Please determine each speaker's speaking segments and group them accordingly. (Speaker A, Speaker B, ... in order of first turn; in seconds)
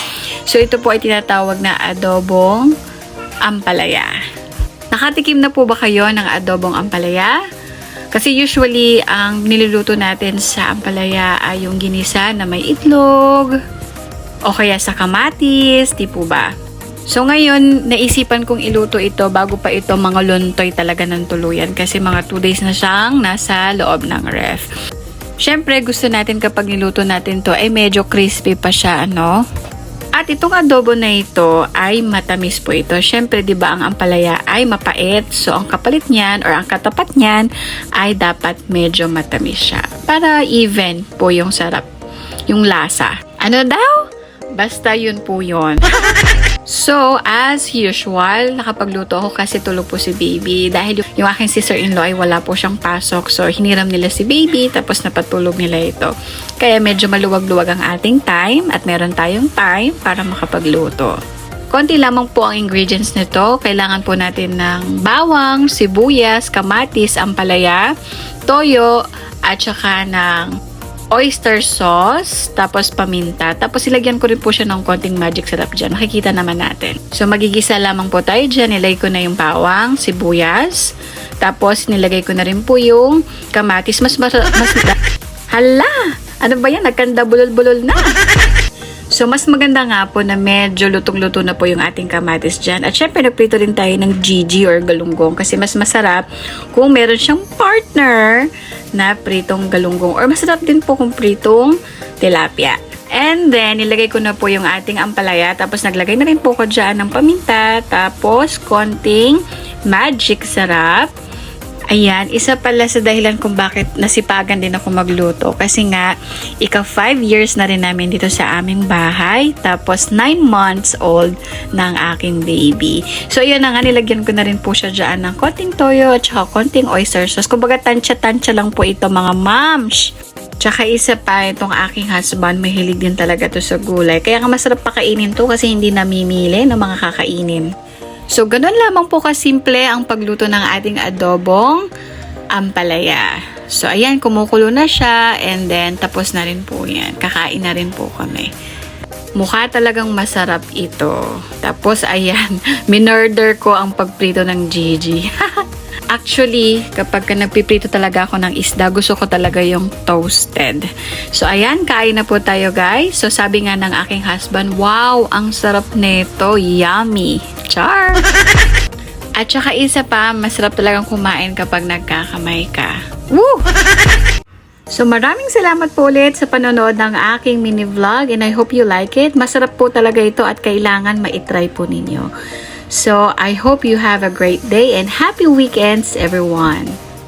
Speaker A: 0.5-2.7, 3.4-4.1, 4.9-7.4, 8.1-13.5, 14.5-16.5, 17.1-24.6, 25.4-29.4, 30.2-41.9, 42.5-61.1, 61.7-67.9, 68.5-69.0, 69.5-70.5, 71.1-80.9, 81.4-85.0, 85.5-88.2, 89.2-111.1, 111.9-116.1, 116.6-130.1, 130.6-137.7, 138.3-141.8, 142.5-148.5, 149.4-168.2, 169.4-173.7, 174.9-182.3, 182.9-186.9